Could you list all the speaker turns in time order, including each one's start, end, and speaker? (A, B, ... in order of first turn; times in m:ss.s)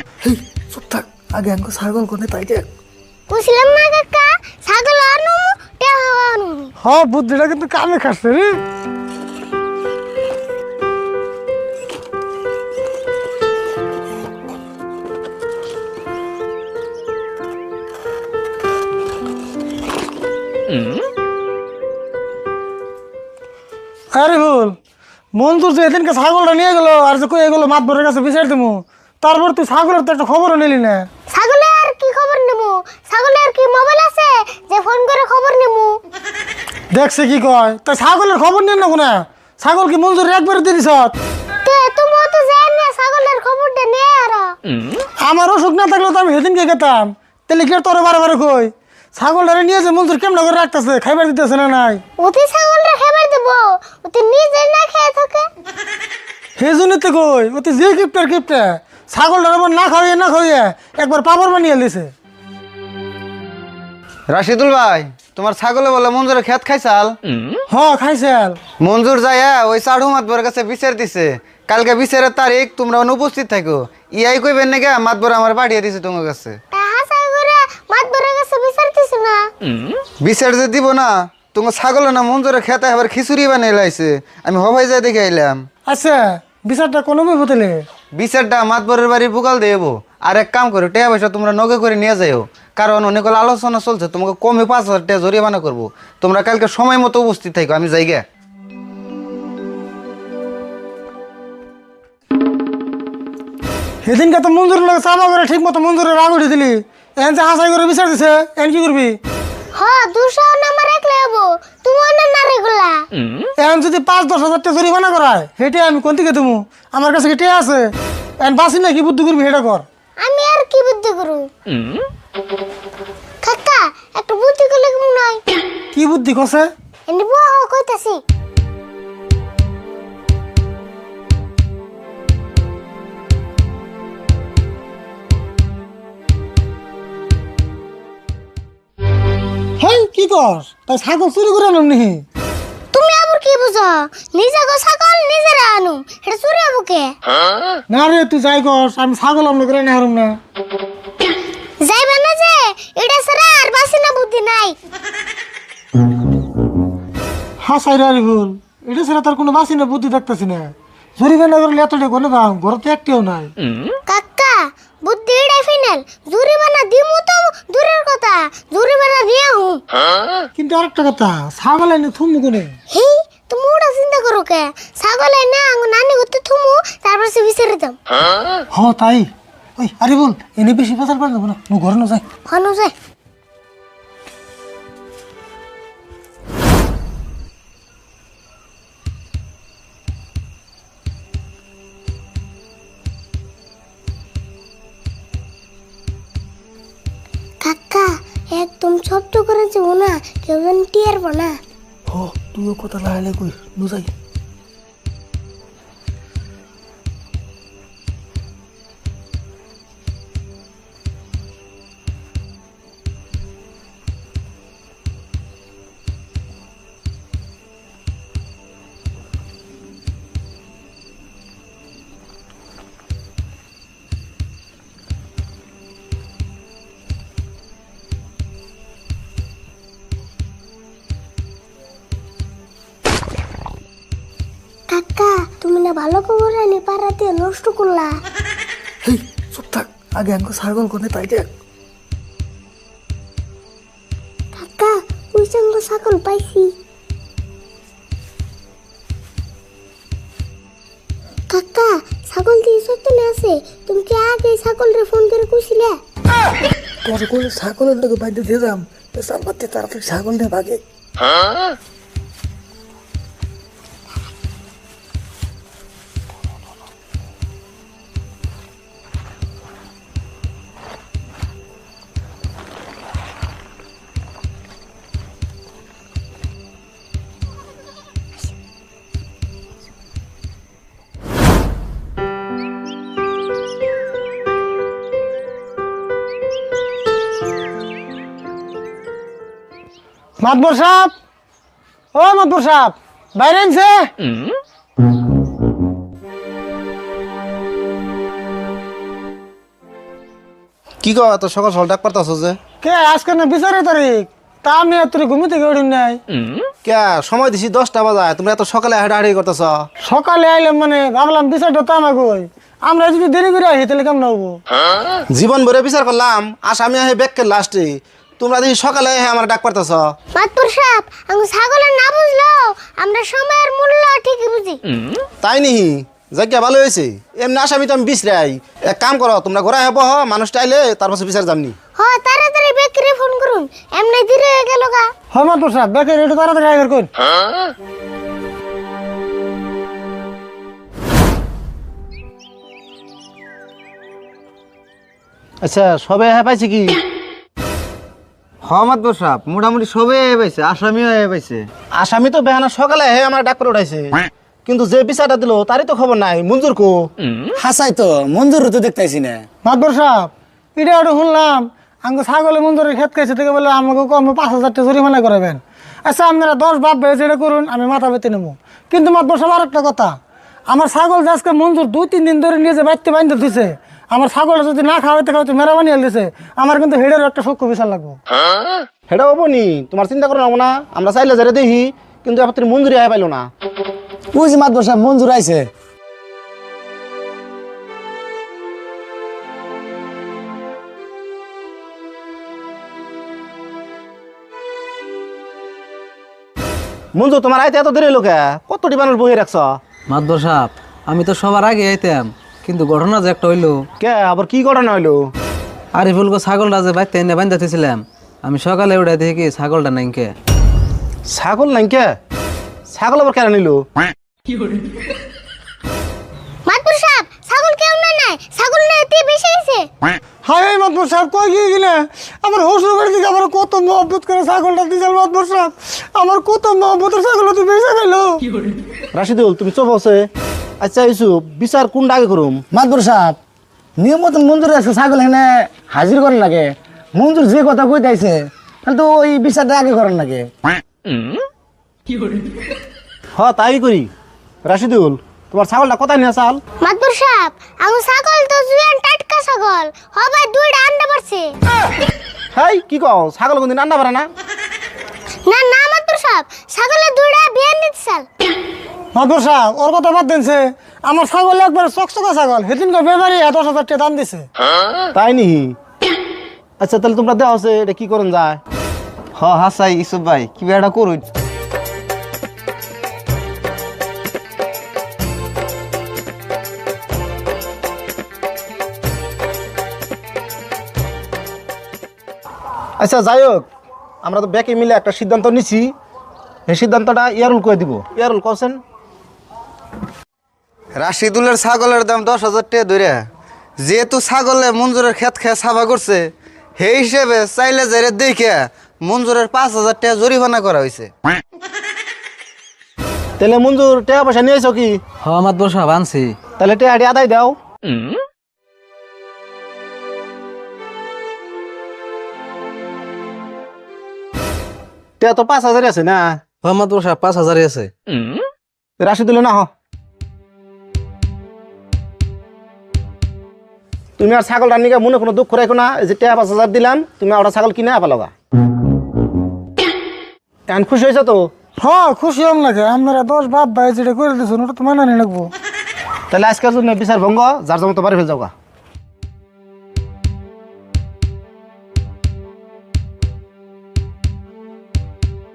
0:00.2-0:00.8 A
0:01.5-0:02.4 B
0:03.3-0:06.7 C
0:06.8-0:08.5 B
0:24.1-0:24.8 B
0:25.4-0:31.1 B
0:31.3-0:36.0 C
0:36.9-0:41.1 B
0:41.6-0:44.5 C
0:45.2-0:52.0 B
0:52.2-0:55.5 C
0:56.6-1:02.1 B
1:04.3-1:07.2 D
1:07.7-1:08.6 B
1:08.8-1:16.6 D
1:16.7-1:19.5 C
1:20.2-1:25.6 D
1:25.9-1:27.8 B
1:28.1-1:38.2 D
1:44.0-1:49.2 B
1:49.7-1:53.0 C
1:53.6-1:59.8 B
2:00.2-2:01.5 C
2:03.4-2:05.4 C
2:05.9-2:06.7 B
2:07.1-2:08.2 C
2:19.8-2:22.2 B
2:22.9-2:27.2 C
2:27.9-2:30.4 B
2:31.8-2:34.8 C
2:37.6-2:43.5 B
2:44.1-2:49.8 C
2:50.6-2:52.8 B
2:52.9-2:58.0 C
2:58.7-3:02.2 B
3:02.4-3:02.9 C
3:17.6-3:21.6 C
3:54.9-3:58.2 C
4:00.4-4:01.2 B
4:04.5-4:06.7 C
4:11.5-4:16.0 C
4:17.1-4:20.8 B
4:50.4-4:51.1 B
4:52.1-4:54.1 B
5:01.0-5:02.6 E
5:02.8-5:06.2 B
5:06.8-5:09.8 E
5:10.0-5:14.6 B
5:15.3-5:20.1 E
5:20.3-5:24.8 C
5:25.4-5:31.7 E
5:32.0-5:35.1 C
5:35.3-5:37.1 B
5:45.6-5:47.0 E
5:48.6-5:51.6 D
5:52.0-5:57.0 E
5:57.6-5:59.4 A
5:59.6-6:10.1 B
6:10.7-6:18.2 B
6:19.1-6:23.5 E
6:24.3-6:25.7 A
6:37.1-6:39.8 E
6:40.1-6:43.7 F
6:44.0-6:45.2 E
6:46.0-6:50.3 F
6:51.3-6:52.1 E
6:52.9-6:53.8 E
6:56.6-6:59.9 C
7:00.4-7:08.4 B
7:09.1-7:10.3 E
7:10.8-7:12.6 E
7:12.7-7:13.4 A
7:14.0-7:20.5 A
7:23.4-7:24.1 E
7:24.6-7:26.6 E
7:26.8-7:31.5 C
7:32.5-7:34.3 E
7:35.4-7:38.2 C
7:39.1-7:44.5 B
7:45.1-7:45.7 E
7:46.8-7:48.6 E
7:49.4-7:51.2 D
8:03.0-8:03.6 E
8:04.2-8:05.9 E
8:06.7-8:08.8 E
8:11.0-8:13.2 D
8:13.8-8:21.1 D
8:23.4-8:25.0 E
8:25.2-8:26.3 F
8:26.6-8:27.6 E
8:35.2-8:36.4 E
8:36.6-8:37.9 F
8:39.0-8:39.7 E
8:44.2-8:48.3 E
8:50.7-8:51.4 E
8:51.8-8:55.5 B
8:56.3-8:58.5 E